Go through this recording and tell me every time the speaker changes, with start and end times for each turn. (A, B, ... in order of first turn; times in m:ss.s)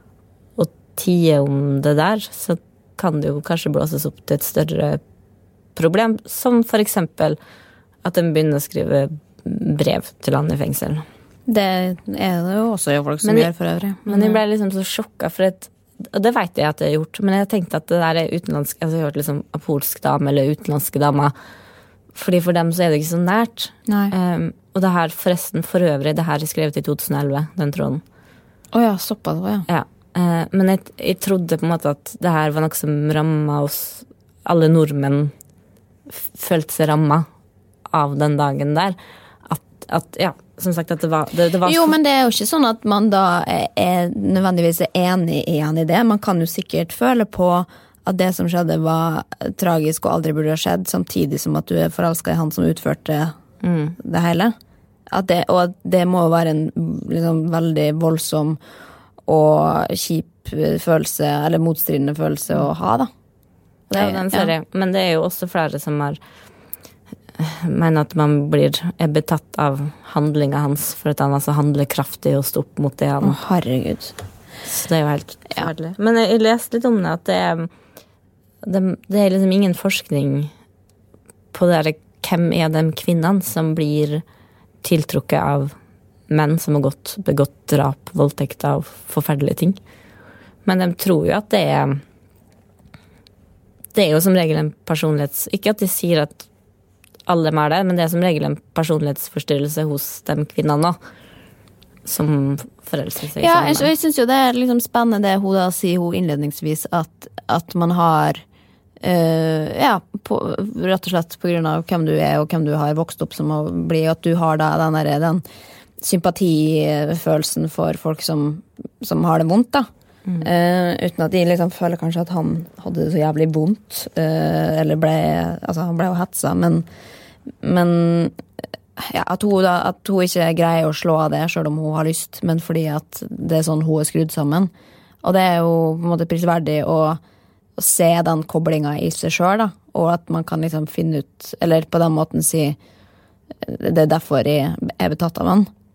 0:00.6-0:05.0 A
0:05.8-0:07.4 A
0:08.0-0:11.0 A
0:11.5-0:14.4 B
0:13.2-0:13.5 A
0:14.1-0:21.3 A
0:22.1-0:28.0 A
0:23.9-0:24.1 B
0:28.7-0:29.7 B
0:29.7-0:35.3 A
0:36.1-0:37.3 A
0:37.9-0:42.0 A
0:41.6-0:53.4 B
0:53.6-0:54.0 A
0:54.0-0:54.6 B
0:55.1-0:58.6 B
0:59.3-1:03.1 B
1:03.9-1:04.5 B
1:03.9-1:06.2 A
1:07.4-1:13.4 A
1:13.2-1:14.1 B
1:14.7-1:17.7 A
1:18.6-1:20.5 A
1:21.5-1:24.2 A
1:24.8-1:25.7 A
1:26.3-1:29.8 A
1:30.7-1:32.0 A
1:34.0-1:36.5 A
1:37.3-1:41.0 A
1:42.1-1:43.9 A
1:43.4-1:48.4 B
1:49.0-1:55.4 B
1:56.0-1:59.9 B
2:00.4-2:06.9 B
2:07.6-2:08.4 B
2:09.0-2:14.7 B
2:15.2-2:17.2 B
2:17.8-2:22.8 B
2:23.6-2:25.7 B